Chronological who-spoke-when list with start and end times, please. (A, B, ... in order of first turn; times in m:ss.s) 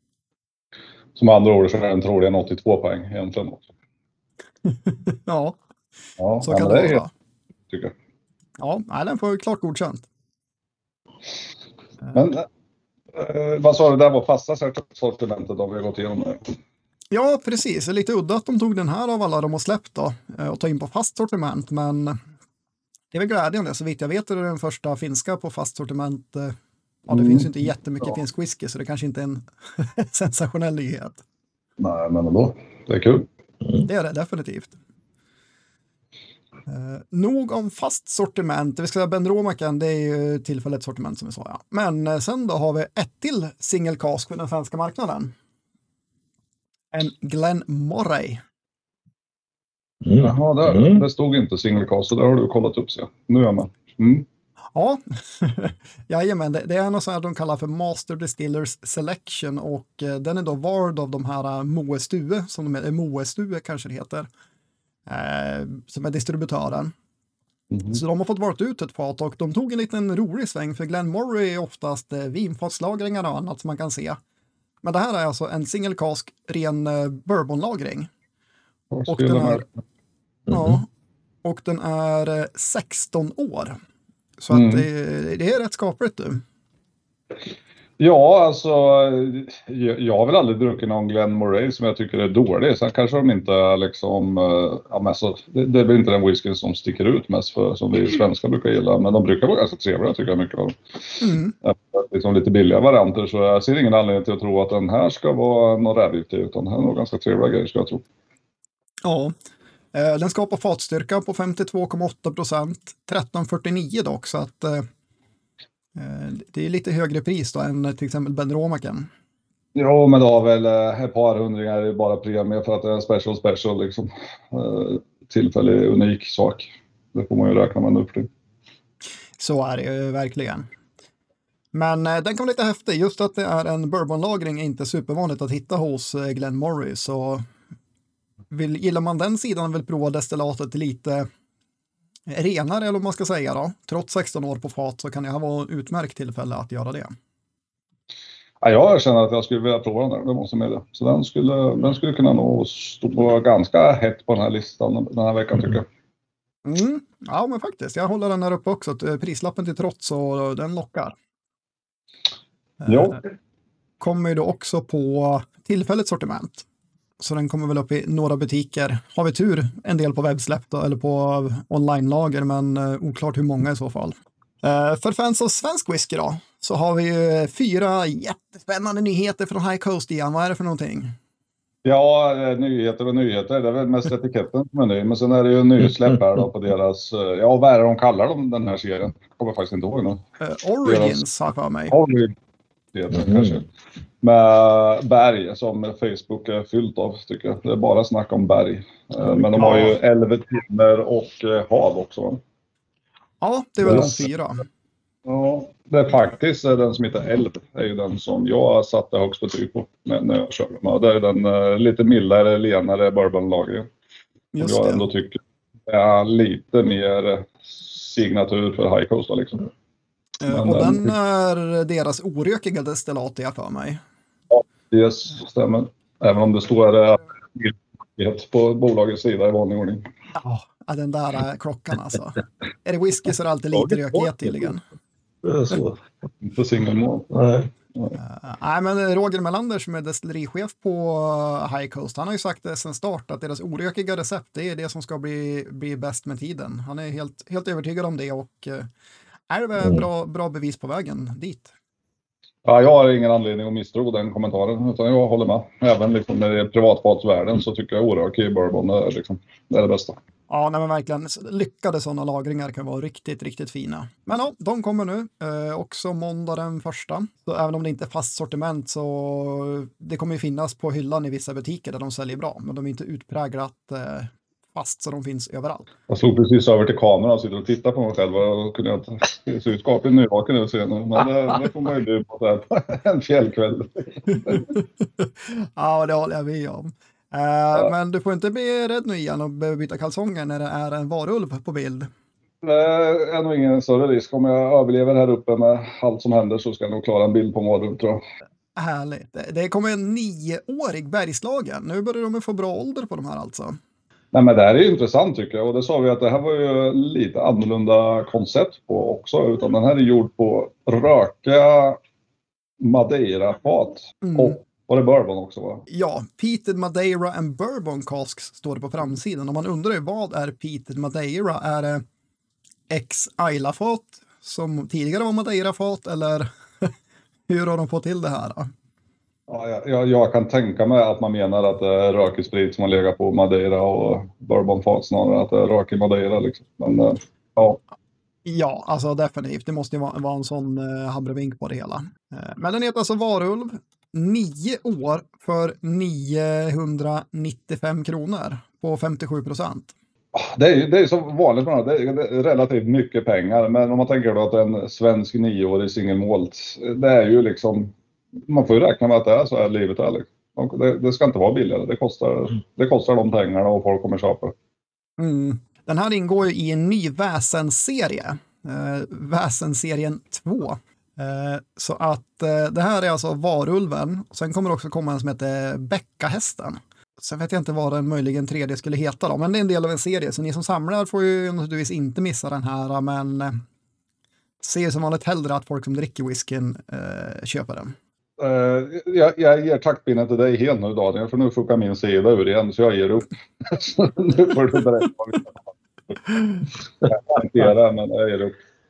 0:01.2-0:03.7 A
0:04.6-0:05.6 B
0:06.2-0:07.0 A
0:06.4-0:07.1 B
0:08.6-0:10.1 B
0:12.1-0:12.5 A
0:13.1-0:16.5 A
0:17.1-0:22.2 B
0:23.1-0:26.6 B
0:27.1-0:31.2 B
0:27.1-0:27.5 A
0:31.8-0:33.3 A
0:33.8-0:34.8 B
0:36.7-0:45.3 B
0:46.9-0:48.4 B
0:50.0-0:51.0 C
0:50.2-0:54.3 A
0:54.8-1:04.3 B
1:05.1-1:06.9 B
1:07.7-1:08.0 A
1:07.9-1:14.2 B
1:14.8-1:18.1 B
1:18.9-1:19.6 A
1:19.1-1:19.6 B
1:20.5-1:20.8 C
1:20.5-1:20.9 B
1:21.4-1:23.8 B
1:24.4-1:26.4 B
1:24.5-1:24.9 A
1:28.0-1:40.8 A
1:41.2-1:41.5 B
1:41.6-1:48.0 A
1:49.0-1:49.3 B
1:49.9-1:54.9 B
1:56.0-1:59.1 B
1:59.8-2:08.3 A
2:09.4-2:10.7 B
2:11.7-2:17.4 B
2:18.5-2:21.3 B
2:22.3-2:27.2 B
2:28.6-2:35.9 A
2:36.7-2:41.2 B
2:42.8-2:43.2 B
2:42.9-2:43.2 A
2:44.0-2:46.7 B
2:47.2-3:01.2 B
3:01.8-3:10.2 A
3:10.4-3:12.0 B
3:10.8-3:11.2 A
3:11.9-3:12.3 A
3:12.9-3:13.7 A
3:14.2-3:22.4 A
3:19.6-3:19.9 B
3:23.4-3:24.6 B
3:25.2-3:33.9 A
3:34.5-3:35.1 B
3:34.6-3:39.7 A
3:40.4-3:44.0 B
3:40.5-3:41.1 A
3:44.5-3:50.1 A
3:50.4-3:54.8 B
3:55.4-3:56.0 C
3:56.4-3:57.3 A
3:57.3-3:57.7 C
3:58.2-4:08.9 B
4:09.5-4:11.7 B
4:12.6-4:20.2 A
4:20.5-4:35.9 B
4:36.1-4:44.7 A
4:45.2-4:52.1 B
4:52.6-4:58.2 A
4:58.8-5:03.8 B
5:04.3-5:12.0 A
5:12.8-5:15.9 A
5:14.2-5:14.6 B
5:15.9-5:22.0 B
5:22.9-5:26.9 B
5:27.5-5:28.7 B
5:29.5-5:37.8 A
5:38.5-5:49.9 B
5:50.4-5:57.9 A
5:58.5-6:04.5 A
6:05.2-6:23.6 B
6:24.6-6:28.0 B
6:28.4-6:35.6 A
6:37.0-6:38.6 A